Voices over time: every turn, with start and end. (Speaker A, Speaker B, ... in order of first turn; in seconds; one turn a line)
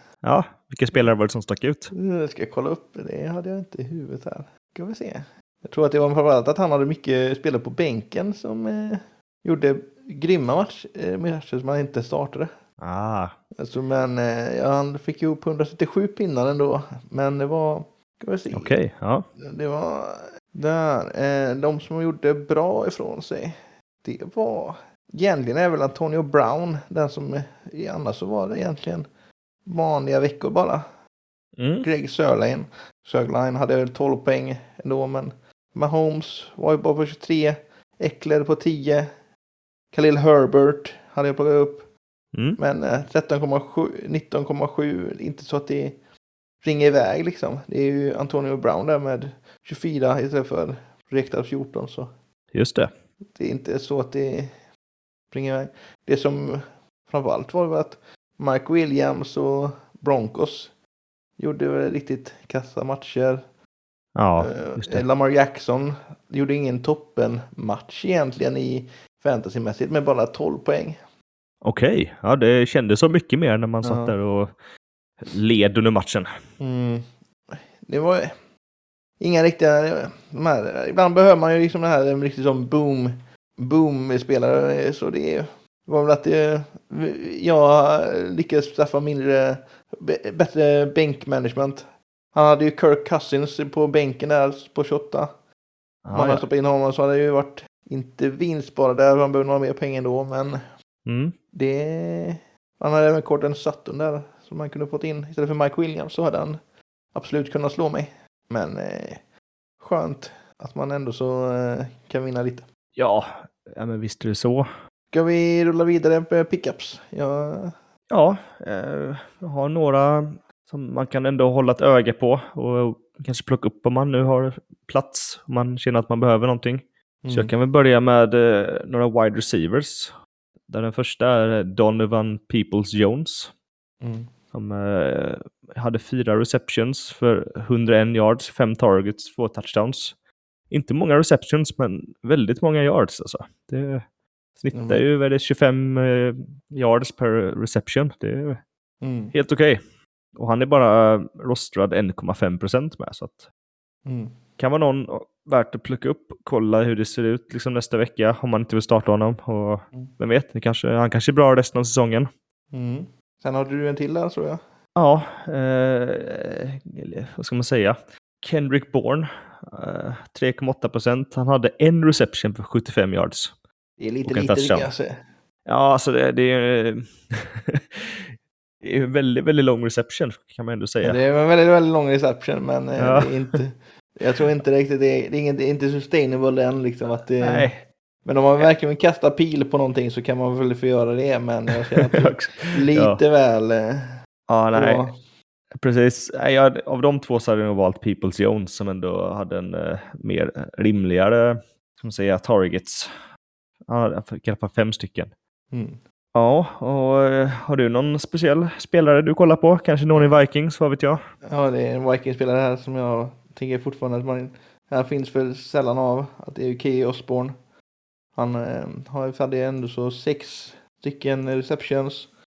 Speaker A: 0.2-1.9
Speaker B: 1.9-12.5
Speaker A: 12.8-13.3
Speaker B: 13.6-18.8
Speaker A: 18.6-19.2
Speaker B: 19.4-29.1
Speaker B: 29.6-30.8
Speaker A: 31.6-31.9
Speaker B: 31.8-39.1
Speaker B: 39.9-41.9
Speaker A: 42.3-42.6
Speaker B: 42.6-46.0
Speaker B: 46.6-52.1
Speaker A: 52.5-52.9
Speaker B: 53.4-54.5
Speaker B: 55.3-60.7
Speaker B: 61.4-63.4
Speaker A: 64.2-65.0
Speaker B: 64.4-71.0
Speaker A: 71.6-74.6
Speaker B: 73.8-74.1
Speaker A: 75.2-76.3
Speaker B: 76.6-78.3
Speaker B: 79.2-95.3
Speaker A: 96.0-96.4
Speaker B: 96.1-100.6
Speaker A: 101.1-101.3
Speaker B: 101.5-106.6
Speaker B: 107.1-109.2
Speaker B: 109.8-112.7
Speaker A: 113.0-114.7
Speaker B: 115.1-117.7
Speaker A: 118.1-130.2
Speaker B: 127.2-127.5
Speaker A: 130.7-133.5
Speaker B: 134.0-134.3
Speaker A: 134.5-140.2
Speaker A: 140.7-144.1
Speaker A: 144.6-148.6
Speaker B: 144.7-145.0
Speaker B: 149.0-149.3
Speaker A: 149.3-149.8
Speaker A: 150.3-153.5
Speaker B: 154.1-154.4
Speaker A: 154.6-162.3
Speaker B: 162.7-164.6
Speaker A: 165.0-173.5
Speaker B: 174.0-175.1
Speaker A: 174.3-174.9
Speaker A: 175.7-181.2
Speaker B: 181.0-187.7
Speaker A: 183.0-183.6
Speaker A: 187.4-187.8
Speaker B: 188.2-194.1
Speaker A: 192.0-193.2
Speaker A: 194.5-195.1
Speaker B: 194.7-195.2
Speaker A: 195.7-203.1
Speaker A: 203.9-205.3
Speaker B: 205.7-206.0
Speaker A: 206.3-211.2
Speaker B: 211.4-217.6
Speaker B: 218.3-222.3